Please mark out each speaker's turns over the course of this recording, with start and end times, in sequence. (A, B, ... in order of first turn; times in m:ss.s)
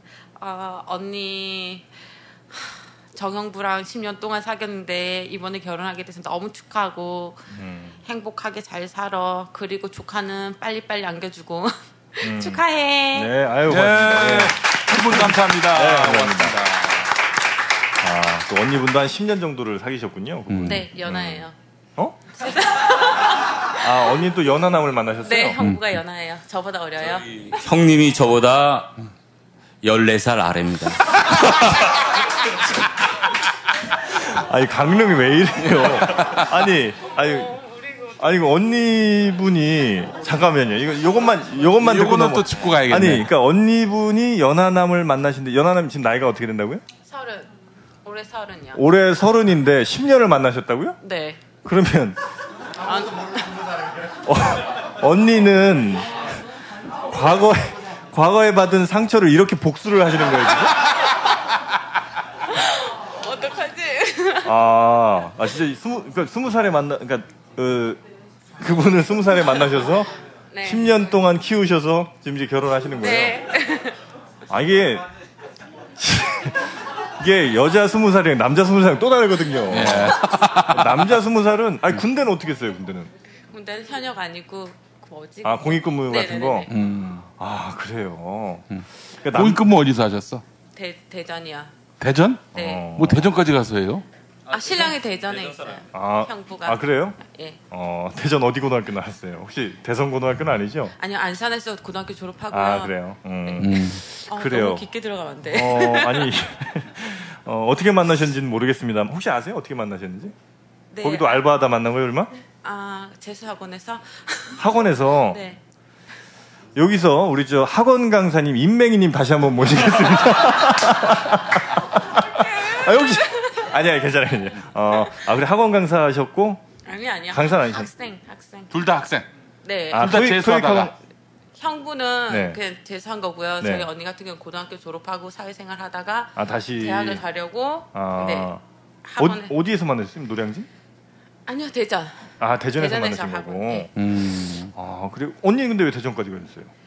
0:00.4-0:01.9 A
0:02.5-0:07.5 A
0:07.5-0:08.0 B
0:08.1-0:13.3 A
0:12.2-0:16.6 B
0:13.7-0:17.1 C
0:18.0-0:22.2 B
0:20.5-0:20.8 C
0:20.7-0:21.6 A
0:22.4-0:23.6 A
0:23.8-0:25.6 B
0:25.2-0:27.6 A
0:27.0-0:29.0 D
0:29.8-0:32.0 D
0:34.1-0:37.6 B
0:37.2-0:38.4 A
0:38.2-0:46.8 B
0:41.8-0:43.3 C
0:47.1-0:47.5 A
0:48.0-0:48.8 A
0:48.7-0:51.0 B
0:51.0-0:51.4 A
0:51.6-0:52.2 B
0:52.8-0:53.6 A
0:54.2-0:56.2 B
0:57.1-1:00.9 B
1:02.5-1:04.6 A
1:04.4-1:08.0 B
1:08.6-1:10.1 B
1:10.5-1:11.0 A
1:10.6-1:13.5 B
1:13.0-1:14.0 A
1:14.5-1:15.1 B
1:16.0-1:23.1 B
1:19.7-1:21.1 C
1:23.5-1:26.7 A
1:25.4-1:26.7 B
1:26.7-1:27.3 C
1:27.3-1:29.6 B
1:28.7-1:30.4 C
1:30.7-1:31.7 A
1:32.0-1:34.0 C
1:32.5-1:32.9 A
1:32.5-1:33.3 B
1:34.5-1:35.9 D
1:34.5-1:37.6 A
1:35.9-1:37.2 B
1:37.7-1:41.0 B
1:41.0-1:43.7 A
1:42.5-1:44.9 B
1:43.6-1:44.0 C
1:44.3-1:46.3 A
1:45.4-1:50.3 B
1:50.9-1:51.4 A
1:51.0-1:52.3 B
1:52.6-1:55.6 A
1:54.6-1:55.4 B
1:56.8-2:06.6 B
2:02.3-2:03.6 A
2:06.9-2:08.7 A
2:07.3-2:07.9 B
2:08.7-2:09.3 C
2:09.6-2:10.2 A
2:09.9-2:11.0 B
2:09.9-2:10.9 C
2:11.6-2:19.6 A
2:12.3-2:12.6 B
2:13.6-2:13.9 B
2:16.4-2:17.2 B
2:17.9-2:18.6 B
2:19.2-2:20.7 B
2:21.5-2:23.9 A
2:22.4-2:24.1 B
2:24.0-2:24.7 C
2:24.7-2:26.7 B